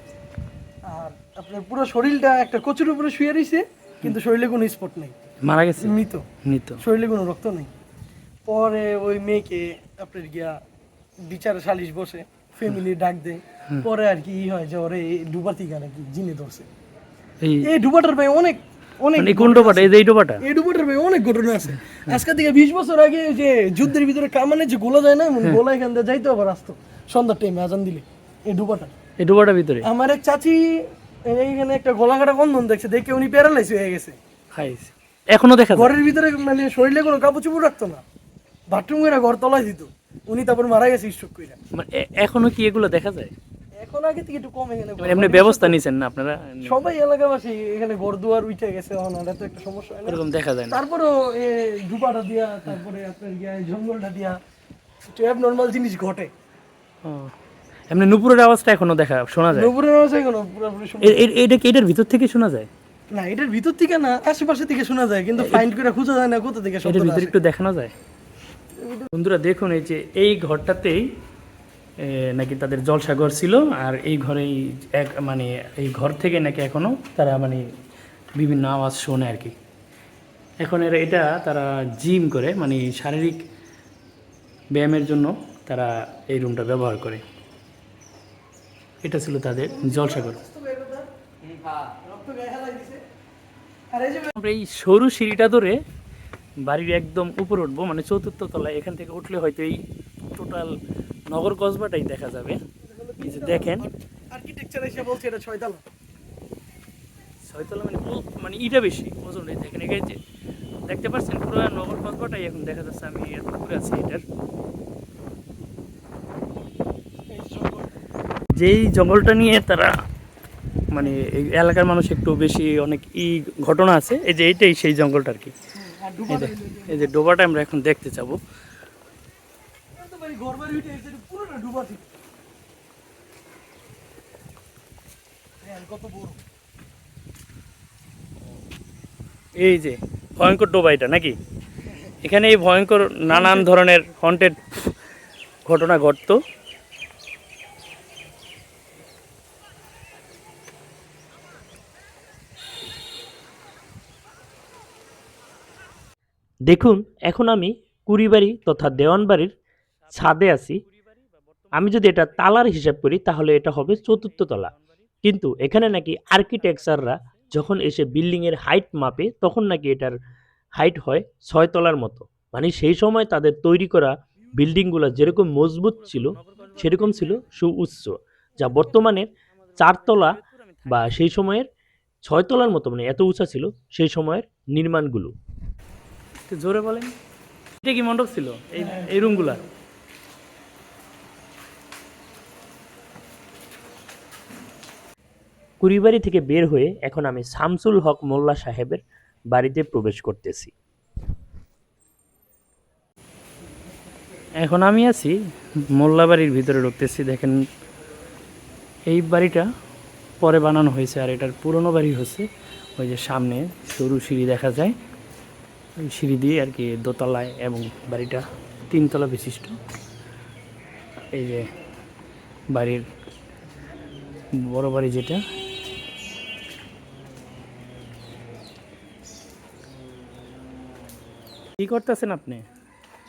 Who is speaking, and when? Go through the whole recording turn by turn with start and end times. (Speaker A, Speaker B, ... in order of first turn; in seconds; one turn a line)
Speaker A: 0.9-5.1
Speaker B: 5.4-6.8
Speaker A: 5.8-6.2
Speaker A: 6.8-7.7
Speaker A: 8.5-10.6
Speaker A: 11.2-16.7
Speaker B: 17.4-17.7
Speaker A: 17.6-28.9
Speaker B: 19.2-20.4
Speaker B: 29.2-29.9
Speaker A: 29.8-34.2
Speaker B: 34.5-35.9
Speaker A: 35.7-38.0
Speaker A: 38.7-41.6
Speaker B: 41.7-43.3
Speaker A: 43.8-45.8
Speaker B: 45.0-46.9
Speaker A: 46.6-50.2
Speaker B: 50.1-50.8
Speaker A: 50.7-54.4
Speaker A: 55.1-56.3
Speaker B: 57.0-57.3
Speaker B: 57.9-59.7
Speaker A: 59.5-61.2
Speaker B: 61.0-62.7
Speaker A: 63.1-67.3
Speaker B: 66.8-67.9
Speaker A: 68.8-69.1
Speaker B: 69.1-71.0
Speaker B: 72.0-77.6
Speaker B: 78.4-79.5
Speaker B: 80.6-83.4
Speaker B: 84.7-87.2
Speaker B: 89.0-90.4
Speaker A: 89.7-91.1
Speaker A: 92.0-93.0
Speaker A: 93.9-94.3
Speaker B: 94.3-95.8
Speaker B: 96.6-100.7
Speaker B: 101.3-102.6
Speaker A: 102.8-105.8
Speaker B: 103.2-103.8
Speaker B: 107.5-110.2
Speaker B: 110.9-114.2
Speaker A: 117.3-117.9
Speaker B: 118.5-119.9
Speaker B: 120.9-125.5
Speaker A: 125.7-127.1
Speaker B: 126.3-128.4
Speaker A: 129.9-132.1
Speaker A: 135.6-136.4
Speaker B: 139.6-141.4
Speaker B: 142.2-144.9
Speaker A: 143.3-143.7
Speaker B: 145.7-146.4
Speaker C: 156.7-159.5
Speaker C: 160.1-160.8
Speaker C: 161.7-170.2
Speaker C: 170.8-181.7
Speaker B: 176.0-177.4
Speaker B: 180.2-181.1
Speaker C: 182.2-185.3
Speaker B: 186.5-187.1
Speaker B: 187.8-189.6
Speaker A: 188.8-189.6
Speaker C: 195.8-200.7
Speaker B: 204.6-205.3
Speaker B: 205.9-207.6
Speaker B: 209.1-209.7
Speaker B: 210.4-214.9
Speaker B: 216.0-219.8
Speaker B: 221.3-221.7
Speaker B: 222.7-223.1
Speaker B: 224.6-225.4
Speaker B: 231.8-232.6